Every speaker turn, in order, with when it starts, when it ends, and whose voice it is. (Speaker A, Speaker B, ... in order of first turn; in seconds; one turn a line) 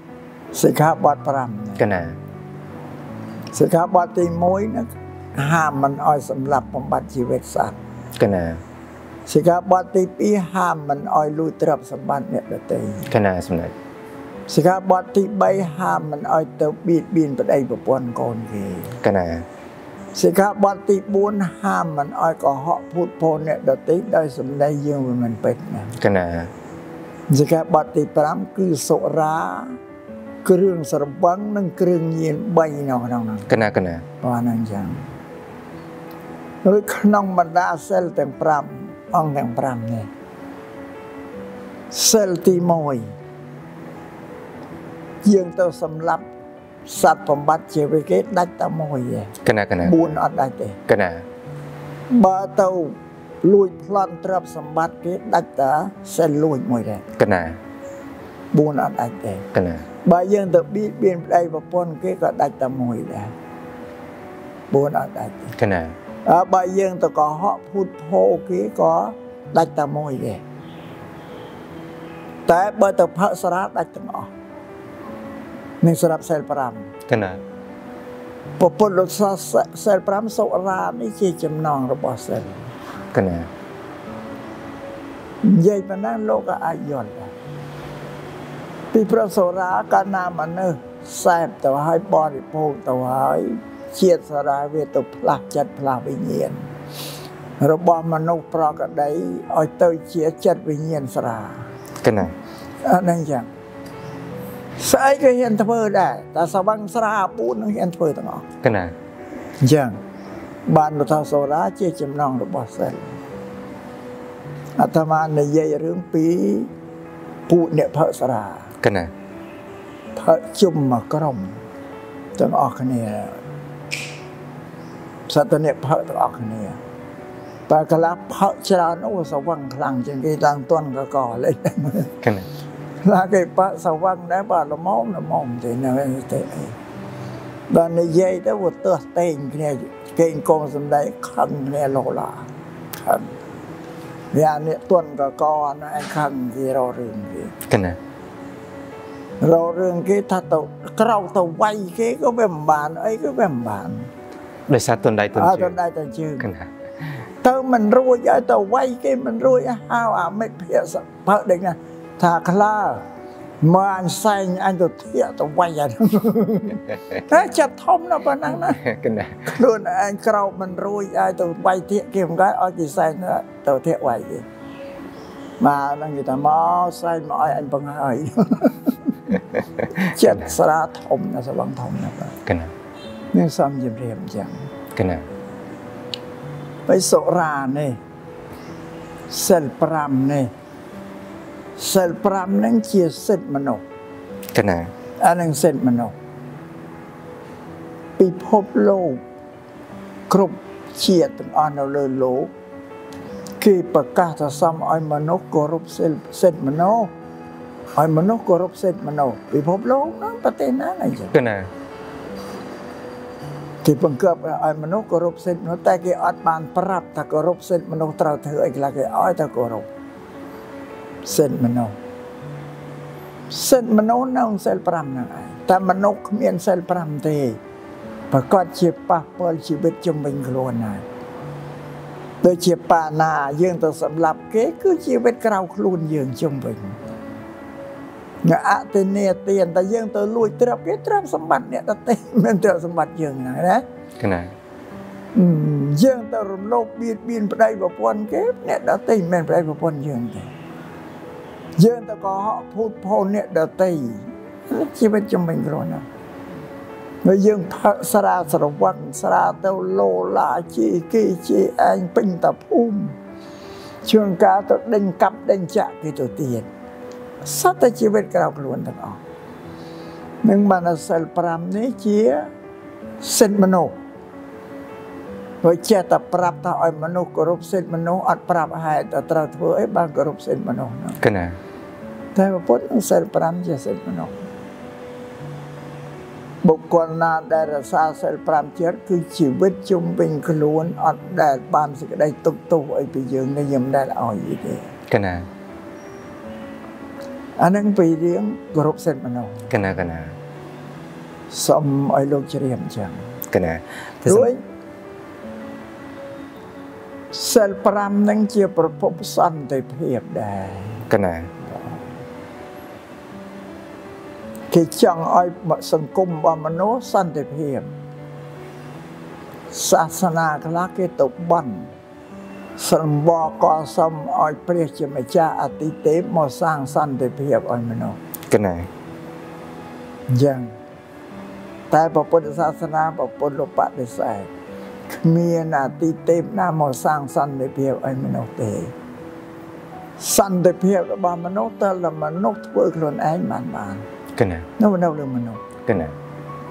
Speaker A: 0.5-1.9
Speaker B: 1.8-2.2
Speaker A: 3.5-7.8
Speaker B: 8.2-8.6
Speaker A: 9.3-13.1
Speaker B: 13.1-13.7
Speaker A: 14.5-19.0
Speaker B: 19.0-19.5
Speaker A: 20.1-26.0
Speaker B: 26.0-26.5
Speaker A: 27.3-29.8
Speaker A: 30.4-33.5
Speaker B: 33.5-34.0
Speaker A: 34.2-35.0
Speaker A: 36.6-40.1
Speaker A: 41.9-43.1
Speaker A: 45.2-46.2
Speaker A: 46.9-50.8
Speaker B: 49.4-50.2
Speaker B: 50.9-51.2
Speaker A: 52.1-57.0
Speaker B: 57.2-57.6
Speaker A: 58.5-59.5
Speaker B: 59.5-59.9
Speaker A: 60.0-63.3
Speaker A: 64.7-65.5
Speaker B: 65.6-66.0
Speaker A: 66.2-70.4
Speaker A: 72.5-74.3
Speaker A: 75.8-76.9
Speaker B: 77.1-77.4
Speaker A: 78.6-82.7
Speaker B: 83.1-83.5
Speaker A: 85.4-87.3
Speaker A: 88.9-96.6
Speaker A: 97.6-101.7
Speaker B: 102.0-102.4
Speaker A: 102.8-103.5
Speaker A: 104.8-108.5
Speaker B: 108.6-109.0
Speaker A: 109.6-110.0
Speaker A: 110.7-113.2
Speaker A: 114.8-116.7
Speaker A: 117.5-118.7
Speaker B: 118.8-119.1
Speaker A: 120.2-121.6
Speaker A: 122.4-123.4
Speaker A: 125.3-126.8
Speaker A: 127.7-132.1
Speaker B: 132.2-132.5
Speaker A: 133.0-136.8
Speaker A: 137.7-143.3
Speaker A: 144.3-147.6
Speaker B: 147.7-148.0
Speaker A: 149.4-154.1
Speaker B: 154.7-155.8
Speaker A: 155.3-156.5
Speaker B: 156.4-156.7
Speaker A: 157.4-163.0
Speaker A: 163.6-168.8
Speaker B: 168.5-169.5
Speaker A: 169.4-174.4
Speaker A: 175.6-179.4
Speaker B: 180.0-180.4
Speaker A: 180.0-182.4
Speaker B: 182.5-182.7
Speaker A: 183.3-184.7
Speaker B: 184.9-185.3
Speaker A: 186.9-188.0
Speaker A: 189.3-190.5
Speaker A: 191.8-193.8
Speaker B: 194.5-194.9
Speaker A: 195.2-196.2
Speaker A: 198.2-199.2
Speaker A: 200.3-202.5
Speaker A: 203.6-207.1
Speaker A: 208.0-211.3
Speaker B: 211.3-211.7
Speaker A: 213.8-219.9
Speaker A: 221.2-222.0
Speaker A: 223.5-227.6
Speaker A: 228.3-231.1
Speaker A: 232.4-237.0
Speaker A: 238.4-243.8
Speaker B: 244.2-244.5
Speaker A: 245.3-250.5
Speaker A: 251.8-256.1
Speaker A: 257.2-263.1
Speaker A: 264.1-266.7
Speaker A: 267.4-269.2
Speaker A: 270.4-272.5
Speaker A: 273.2-273.9
Speaker A: 275.6-281.2
Speaker B: 281.2-281.6
Speaker A: 282.4-284.4
Speaker A: 286.6-294.9
Speaker B: 295.1-295.5
Speaker A: 297.6-299.7
Speaker B: 299.7-300.4
Speaker A: 301.5-303.2
Speaker B: 303.5-304.5
Speaker A: 304.3-304.6
Speaker A: 307.3-311.1
Speaker B: 311.1-311.5
Speaker A: 314.7-317.9
Speaker A: 319.7-321.9
Speaker A: 322.8-328.2
Speaker B: 328.5-328.9
Speaker A: 330.3-330.7
Speaker A: 331.9-334.5
Speaker A: 335.1-338.9
Speaker A: 340.2-344.1
Speaker B: 344.4-344.7
Speaker A: 344.8-345.6
Speaker B: 345.9-346.1